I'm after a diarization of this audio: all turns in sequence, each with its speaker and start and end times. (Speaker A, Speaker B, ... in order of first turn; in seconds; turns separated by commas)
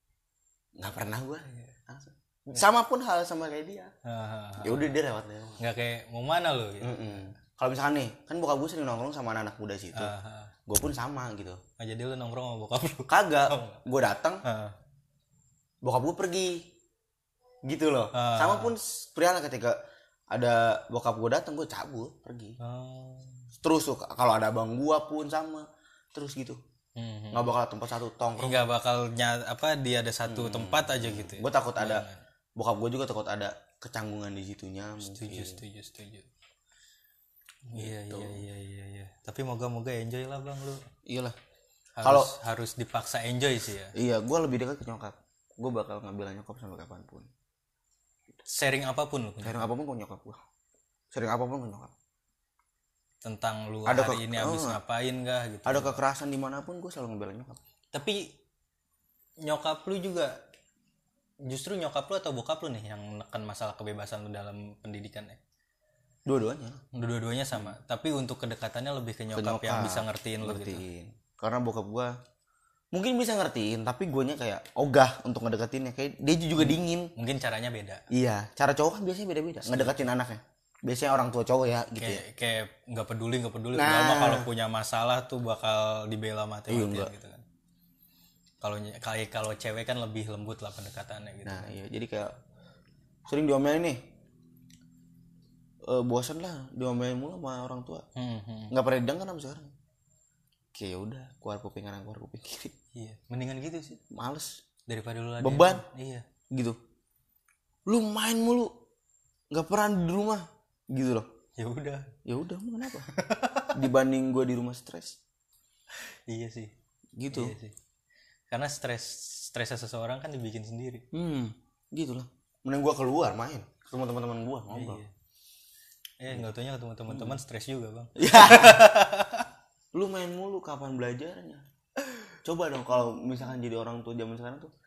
Speaker A: 0.8-3.9, Speaker B: 4.0-4.9, Speaker A: 4.6-5.6, Speaker B: 5.6-7.0, Speaker A: 6.8-10.1, Speaker B: 9.9-10.5, Speaker A: 10.7-11.6, Speaker B: 11.8-13.8, Speaker A: 13.1-14.4, Speaker B: 14.4-14.8, Speaker A: 15.8-16.7, Speaker A: 17.6-19.8, Speaker B: 18.1-18.7, Speaker A: 20.3-22.6, Speaker B: 22.6-23.5, Speaker A: 23.6-26.6, Speaker B: 27.0-27.5, Speaker A: 27.3-28.6, Speaker B: 28.4-32.2, Speaker A: 30.3-35.6, Speaker B: 35.0-36.3, Speaker B: 37.7-40.8, Speaker A: 37.8-38.4, Speaker A: 41.1-41.4, Speaker B: 42.0-43.9, Speaker A: 42.0-42.3, Speaker A: 44.0-47.3, Speaker B: 48.5-49.7, Speaker A: 49.4-50.4, Speaker A: 51.1-51.9, Speaker B: 53.2-56.0, Speaker A: 53.9-54.8, Speaker A: 55.7-57.6, Speaker B: 57.9-58.3, Speaker B: 59.4-60.4, Speaker B: 61.4-65.4, Speaker A: 66.3-66.8, Speaker B: 66.9-70.8, Speaker A: 69.3-72.1, Speaker A: 72.9-77.1, Speaker B: 76.6-78.1, Speaker A: 78.1-82.2, Speaker B: 79.6-80.1, Speaker B: 82.0-87.4, Speaker A: 83.7-84.5, Speaker A: 86.7-87.1, Speaker B: 88.6-91.7, Speaker A: 91.5-92.3, Speaker A: 93.3-94.1, Speaker A: 95.8-98.1, Speaker B: 98.2-98.7, Speaker A: 98.7-99.7, Speaker A: 100.7-102.8, Speaker B: 103.0-104.0, Speaker A: 104.1-104.6, Speaker B: 104.9-106.3, Speaker A: 105.4-105.8, Speaker A: 106.5-106.8, Speaker A: 107.9-108.7, Speaker A: 109.5-111.3, Speaker B: 111.6-112.1, Speaker A: 112.2-113.1, Speaker B: 113.1-113.8, Speaker A: 113.7-115.2, Speaker B: 116.0-116.7, Speaker A: 117.2-117.5, Speaker B: 117.3-117.8, Speaker B: 118.5-121.0, Speaker A: 121.1-125.0, Speaker B: 124.7-125.1, Speaker B: 126.2-129.5, Speaker A: 127.1-127.4, Speaker A: 128.2-128.9, Speaker A: 129.9-131.6, Speaker A: 132.4-134.7